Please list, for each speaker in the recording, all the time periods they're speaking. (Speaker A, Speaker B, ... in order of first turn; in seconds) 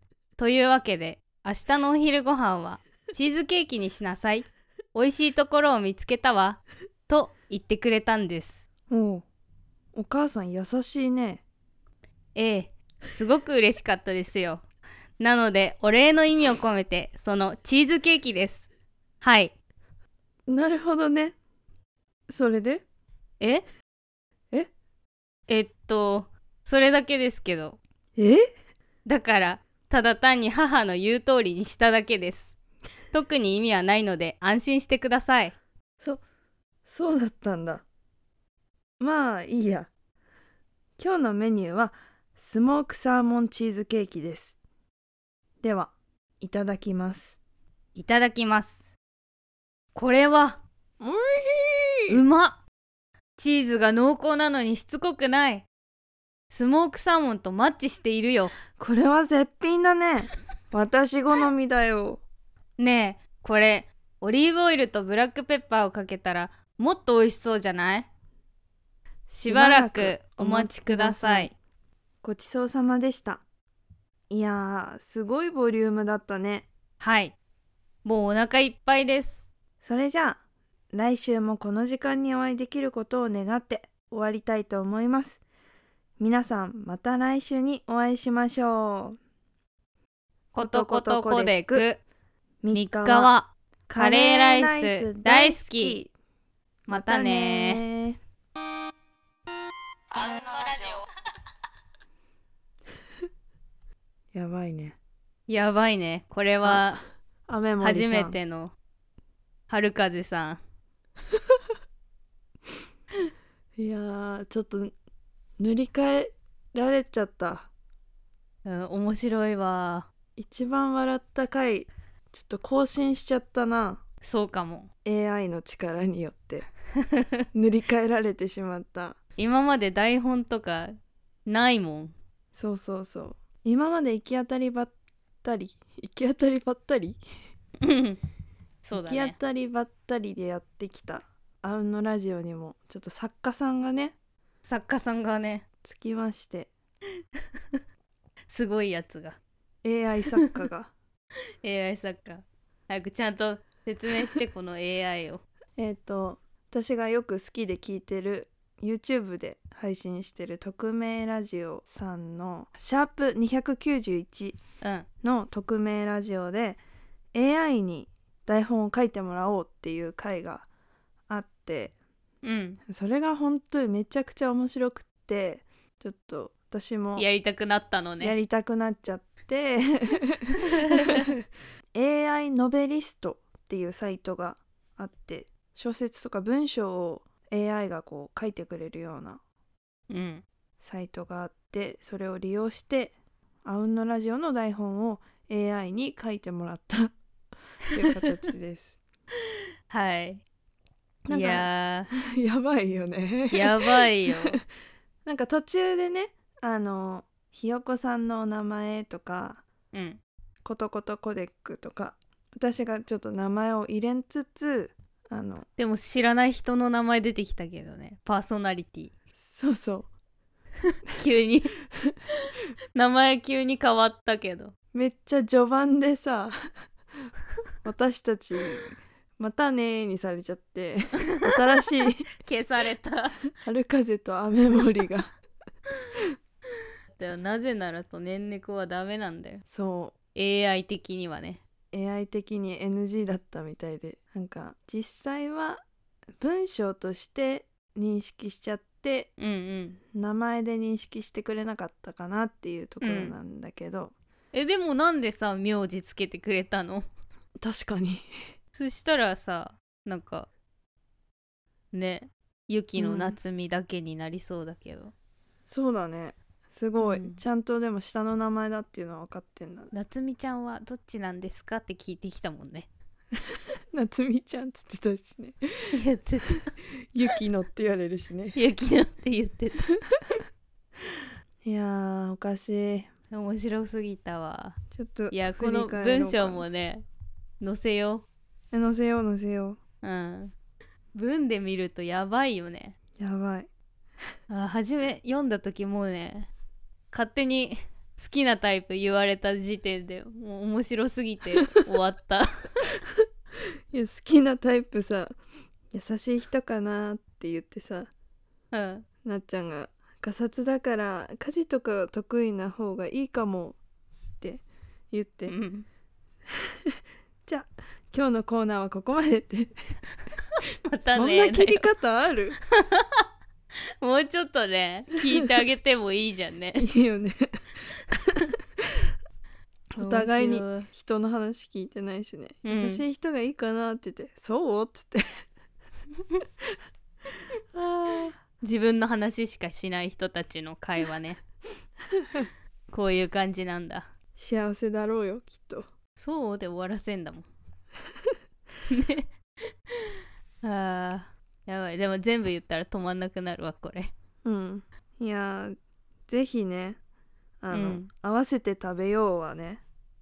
Speaker A: 0.4-8.6, 12.3-14.6, 15.2-18.6, 19.2-19.5, 23.4-23.6, 25.5-27.8, 29.0-32.5, 33.1-35.5, 47.9-48.9, 49.9-50.6, 52.1-52.6, 53.4-55.7, 56.5-58.5, 62.8-68.1, 69.4-71.5, 77.0-77.3, 78.0-79.5, 90.5-92.0, 92.7-96.0, 96.9-97.8, 105.5-107.0, 107.8-108.7, 109.7-110.6, 118.6-120.1, 124.2-124.9, 129.4-130.9, 131.4-132.1, 137.8-138.2, 138.8-139.3, 144.6-145.6, 148.5-149.4, 151.6-155.4, 164.8-165.1, 172.4-172.8, 177.2-178.4, 180.9-181.3, 190.1-190.4, 199.9-200.4, 201.3-202.1, 203.5-204.6, 209.9-210.2, 215.8-219.1, 221.1-221.8, 222.9-224.7, 232.4-233.4, 237.1-239.6, 240.3-241.6, 249.4-250.0, 253.0-253.3, 254.5-257.1, 258.7-260.5, 261.9-265.1, 267.0-267.4, 269.9-272.9, 275.9-276.7, 278.5-279.9, 283.3-284.8, 285.3-287.0, 287.6-288.2, 290.0-290.5, 291.1-292.9, 294.5-296.5, 297.1-302.9, 308.7-309.1, 315.5-315.9, 320.8-321.9, 322.8-323.0, 324.0-326.9, 330.0-330.9, 332.6-333.0, 338.6-341.4, 342.9-344.1, 346.1-347.4, 348.9-349.3, 350.6-354.1, 357.7-358.1
Speaker B: 8.9-9.2, 9.9-11.4, 20.5-21.4, 22.3-22.8, 28.1-28.4, 36.9-37.8, 39.0-39.9, 41.0-44.6, 45.6-47.4, 51.0-52.2, 58.8-62.2, 69.3-71.5, 72.2-73.4, 74.3-76.7, 79.8-80.4, 80.9-85.4, 86.2-89.2, 90.6-91.8, 92.6-93.3, 93.9-96.1, 96.9-98.2, 104.3-105.0, 106.6-106.9, 107.5-108.4, 113.8-114.9, 115.6-117.7, 120.4-124.0, 125.0-126.7, 127.5-129.2, 132.5-134.9, 135.4-137.2, 138.9-144.2, 145.8-146.7, 149.8-150.9, 155.8-164.6, 165.2-166.8, 167.3-170.7, 171.3-171.9, 172.9-177.3, 178.2-181.3, 181.9-189.4, 190.8-197.1, 197.9-199.0, 201.3-204.6, 205.2-209.6, 210.6-215.7, 219.4-220.1, 224.9-226.7, 227.8-232.2, 233.6-235.3, 239.7-240.1, 241.9-245.8, 246.4-249.3, 250.1-254.1, 257.6-258.4, 263.0-263.4, 265.7-269.9, 273.9-275.6, 277.1-278.6, 281.6-283.1, 284.9-286.6, 288.7-289.8, 293.2-293.7, 303.9-305.4, 305.9-308.1, 309.2-313.8, 314.4-315.6, 317.4-319.8, 321.1-322.6, 326.8-327.6, 329.9-335.4, 337.7-338.4, 344.4-345.9, 354.4-355.8, 356.3-357.0, 357.6-359.8